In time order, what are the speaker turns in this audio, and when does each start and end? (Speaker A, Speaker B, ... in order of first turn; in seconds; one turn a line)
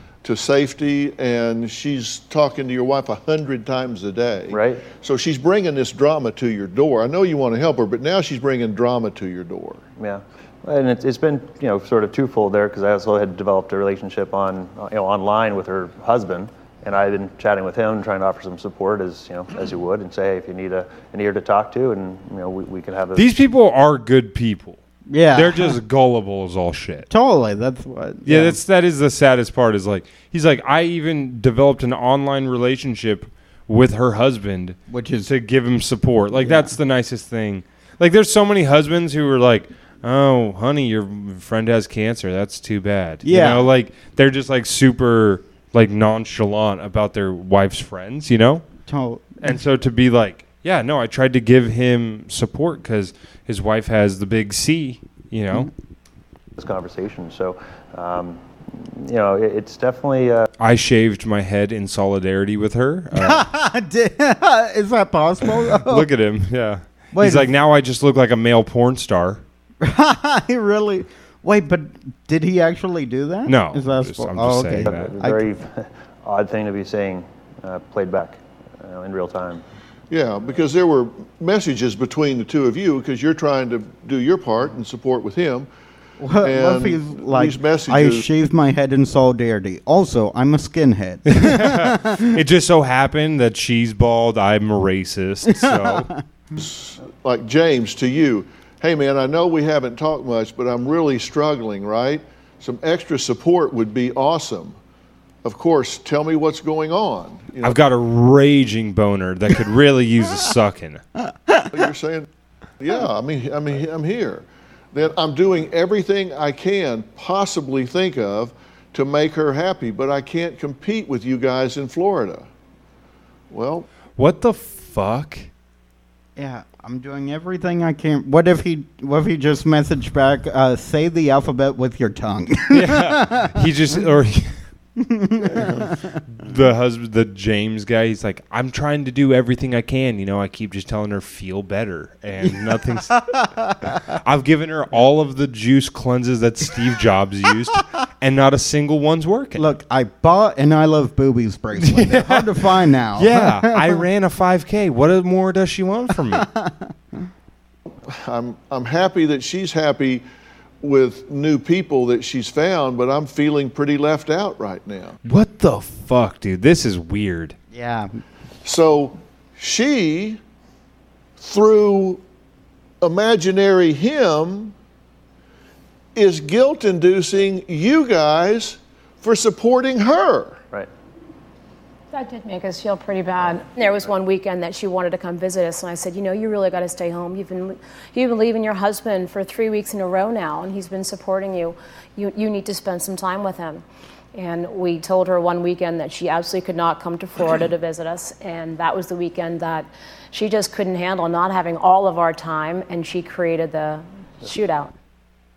Speaker A: 0.2-9.8
Speaker B: 4.5-4.8
Speaker B: 10.0-23.3
Speaker C: 23.1-24.8
Speaker D: 25.1-25.8
Speaker C: 25.3-27.1
Speaker D: 27.1-28.6
Speaker C: 28.2-48.6
Speaker D: 34.9-35.3
Speaker D: 36.4-36.7
Speaker D: 43.2-43.7
Speaker D: 48.9-49.6
Speaker C: 49.4-55.7
Speaker B: 56.6-60.5
Speaker C: 60.6-63.4
Speaker D: 63.1-66.1
Speaker C: 65.5-69.4
Speaker D: 67.1-67.5
Speaker D: 69.8-75.5
Speaker C: 73.5-75.1
Speaker B: 74.8-79.6
Speaker A: 80.1-85.7
Speaker D: 86.2-92.3
Speaker A: 86.4-88.3
Speaker C: 91.2-96.1
Speaker D: 95.5-96.2
Speaker A: 96.5-104.8
Speaker A: 105.4-107.8
Speaker C: 107.6-111.0
Speaker A: 111.7-112.3
Speaker A: 112.8-122.5
Speaker A: 123.5-123.9
Speaker C: 124.2-125.5
Speaker D: 126.3-133.6
Speaker C: 132.7-134.6
Speaker D: 135.0-136.2
Speaker C: 135.4-143.4
Speaker D: 143.1-143.9
Speaker C: 144.1-149.6
Speaker D: 149.6-154.0
Speaker C: 151.8-156.5
Speaker D: 156.3-156.9
Speaker A: 158.0-160.2
Speaker A: 160.8-165.2
Speaker C: 165.2-167.6
Speaker D: 167.7-168.1
Speaker A: 168.6-170.4
Speaker A: 171.4-172.2
Speaker A: 173.0-174.7
Speaker A: 176.1-180.6
Speaker E: 182.1-204.9